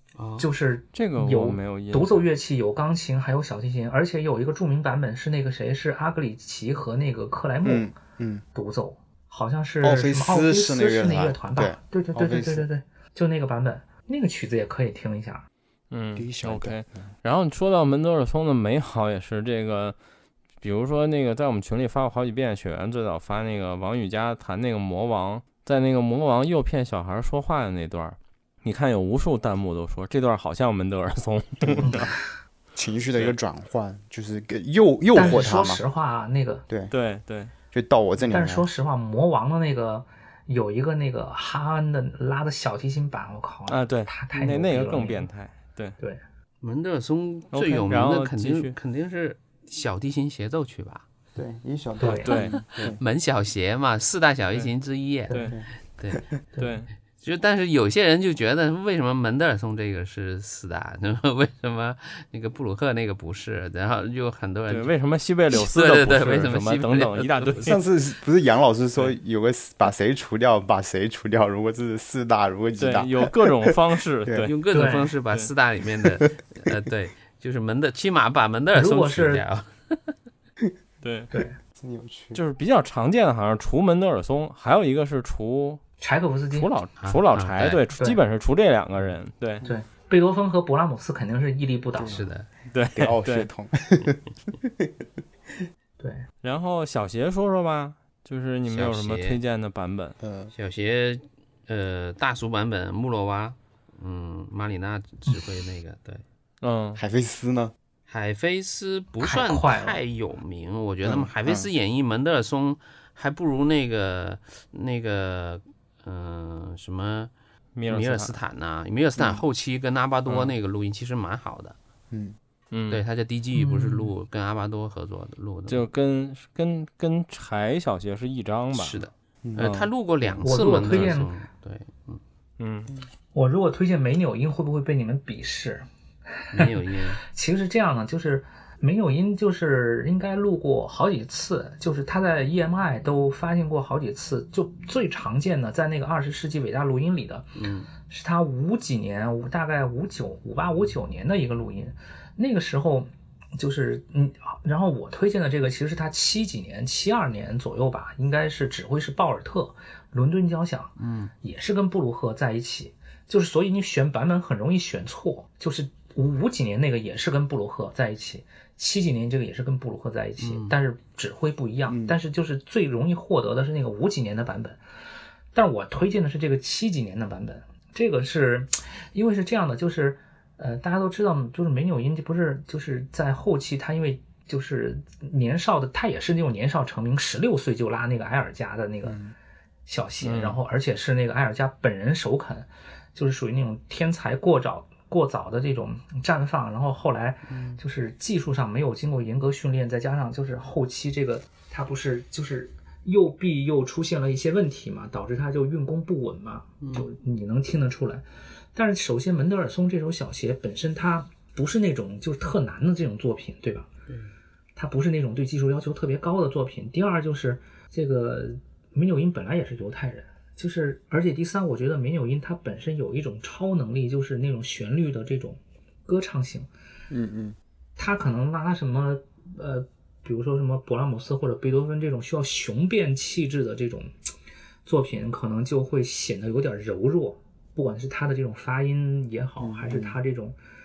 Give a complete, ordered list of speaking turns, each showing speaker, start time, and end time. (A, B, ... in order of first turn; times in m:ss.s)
0:00.2-0:00.5 A
0:00.4-0:07.9 B
0:00.9-0:02.3 C
0:07.6-0:08.4 D
0:08.5-0:15.5 B
0:09.8-0:12.7 D
0:15.9-0:20.0 C
0:16.2-0:17.1 D
0:20.6-0:32.1 C
0:31.6-0:32.1 D
0:31.8-0:32.2 B
0:32.7-0:35.8 D
0:33.1-0:33.4 C
0:35.1-0:36.6 B
0:36.9-0:37.5 C
0:37.7-0:38.7 D
0:38.2-0:45.3 B
0:43.7-0:46.0 C
0:46.6-0:51.0 A
0:47.5-0:48.8 C
0:51.4-0:53.0 D
0:52.0-0:52.4 B
0:52.2-0:52.6 C
0:52.6-0:55.4 A
0:55.3-0:55.6 B
0:55.3-0:55.5 C
0:56.0-0:56.3 A
0:56.6-0:56.9 C
0:57.2-1:04.9 A
1:04.7-1:07.8 C
1:05.5-1:07.8 A
1:07.6-1:14.5 D
1:12.8-1:14.6 C
1:14.4-1:20.2 A
1:14.7-1:15.1 B
1:18.7-1:19.4 B
1:21.0-1:21.3 C
1:21.3-1:21.6 B
1:21.8-1:22.4 D
1:22.3-1:25.8 C
1:26.0-1:26.7 B
1:26.5-1:29.6 C
1:27.0-1:27.8 A
1:29.6-1:32.3 B
1:32.0-1:32.2 D
1:32.0-1:32.5 A
1:32.7-1:33.5 C
1:32.9-1:35.1 D
1:36.0-1:36.3 B
1:36.4-1:40.2 C
1:38.7-1:39.4 A
1:40.2-1:40.5 D
1:40.5-1:46.2 A
1:46.6-1:47.0 C
1:47.0-1:47.7 D
1:48.1-1:57.3 A
1:49.2-1:50.0 B
1:51.0-1:51.7 D
1:57.7-1:58.4 C
1:57.9-2:01.8 A
1:59.2-1:59.4 D
2:00.3-2:00.5 C
2:02.1-2:02.4 D
2:02.7-2:03.0 C
2:02.9-2:05.8 A
2:03.5-2:04.1 B
2:05.7-2:09.0 C
2:08.7-2:12.2 A
2:09.4-2:09.7 D
2:09.6-2:09.9 C
2:10.4-2:11.3 B
2:10.8-2:11.1 C
2:12.6-2:12.9 C
2:13.3-2:15.9 B
2:16.4-2:54.8 B
2:16.5-2:17.2 A
2:27.6-2:27.9 A
2:41.0-2:41.3 A
2:50.4-2:50.8 A
2:51.9-2:52.2 D
2:55.5-3:09.2 B
3:09.0-3:09.3 D
3:09.8-3:33.9 B
3:10.2-3:10.6 C
3:17.5-3:17.8 A
3:26.8-3:27.1 A
3:34.1-3:34.3 A
3:34.8-3:46.7 B
3:47.1-3:47.6 D
3:48.0-3:54.3 B
3:54.8-4:00.6 B
3:59.6-4:00.2 D